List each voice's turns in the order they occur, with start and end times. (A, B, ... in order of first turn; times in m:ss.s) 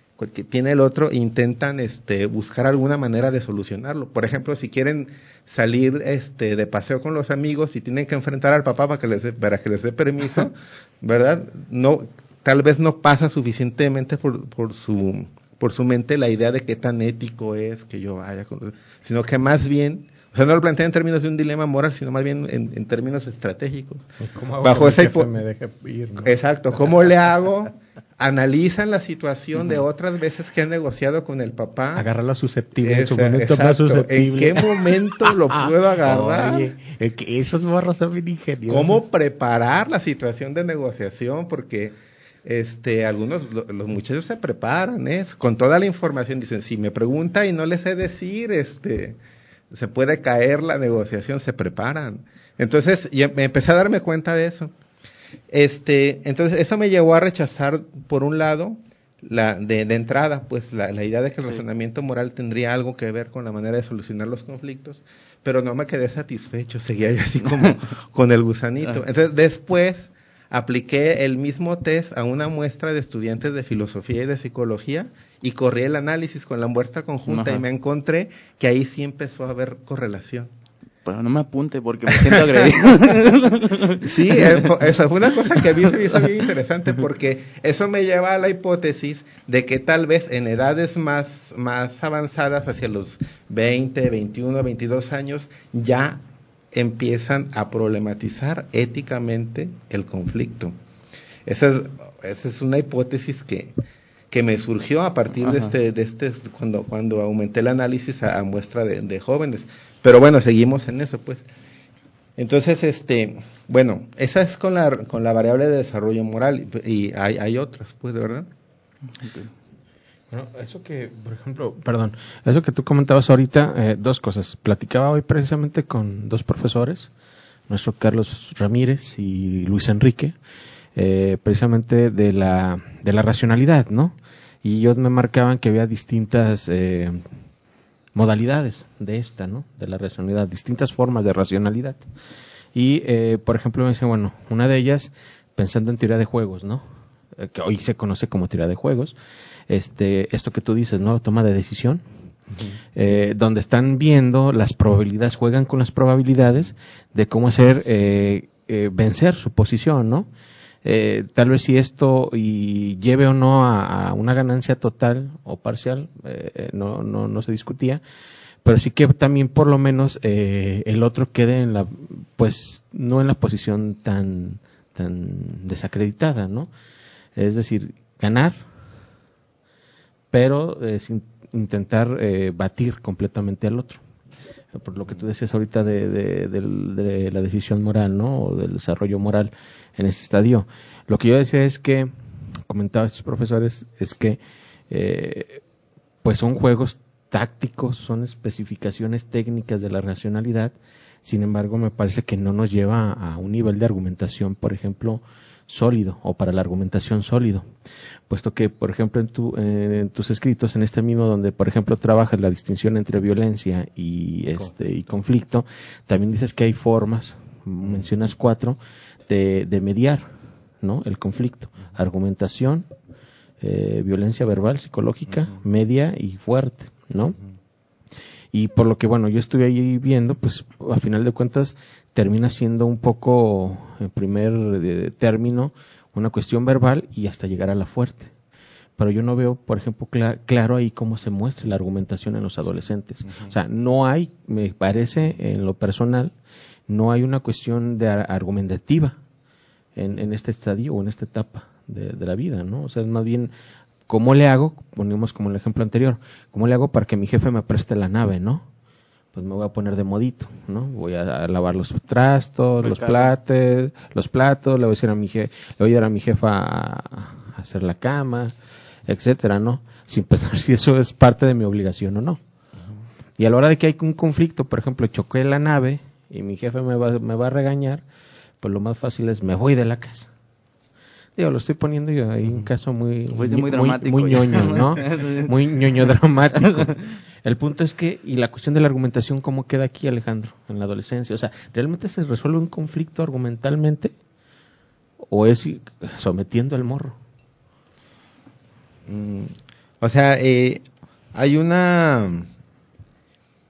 0:00.2-0:24.1 A
0:24.2-0:26.3 B
0:24.6-0:25.3 A
0:26.2-0:32.0 A
0:31.9-0:39.0 B
0:32.8-0:36.7 A
0:38.7-0:49.2 A
0:49.7-0:54.7 A
0:55.5-1:20.5 A
1:17.3-1:17.6 C
1:21.0-1:24.7 C
1:22.1-1:23.1 A
1:24.0-1:36.2 A
1:36.7-1:40.7 A
1:41.4-1:43.8 A
1:44.3-1:51.5 A
1:52.4-1:58.5 A
2:00.3-2:07.1 B
2:07.7-2:10.4 B
2:11.0-2:17.2 B
2:18.1-2:22.0 B
2:22.7-2:29.1 B
2:29.7-2:32.0 B
2:32.9-2:40.3 B
2:40.8-2:48.0 B
2:48.6-2:56.7 B
2:57.4-2:58.6 B
3:00.3-3:04.0 B
3:04.7-3:12.1 B
3:12.7-3:14.4 B
3:14.9-3:15.6 B
3:16.2-3:27.6 B
3:28.3-3:40.3 B
3:40.8-3:42.8 B
3:43.6-3:47.4 B
3:48.5-3:58.3 B
3:59.0-4:06.3 B
4:03.2-4:03.5 A
4:06.9-4:09.2 B
4:10.0-4:13.5 B
4:14.1-4:18.6 B
4:19.3-4:28.5 B
4:22.8-4:23.3 C
4:29.1-4:32.4 B
4:33.4-4:38.0 B
4:38.6-4:40.3 B
4:41.4-4:46.9 B
4:43.3-4:45.5 C
4:47.4-4:54.1 B
4:55.3-4:57.2 B
4:59.1-5:02.5 A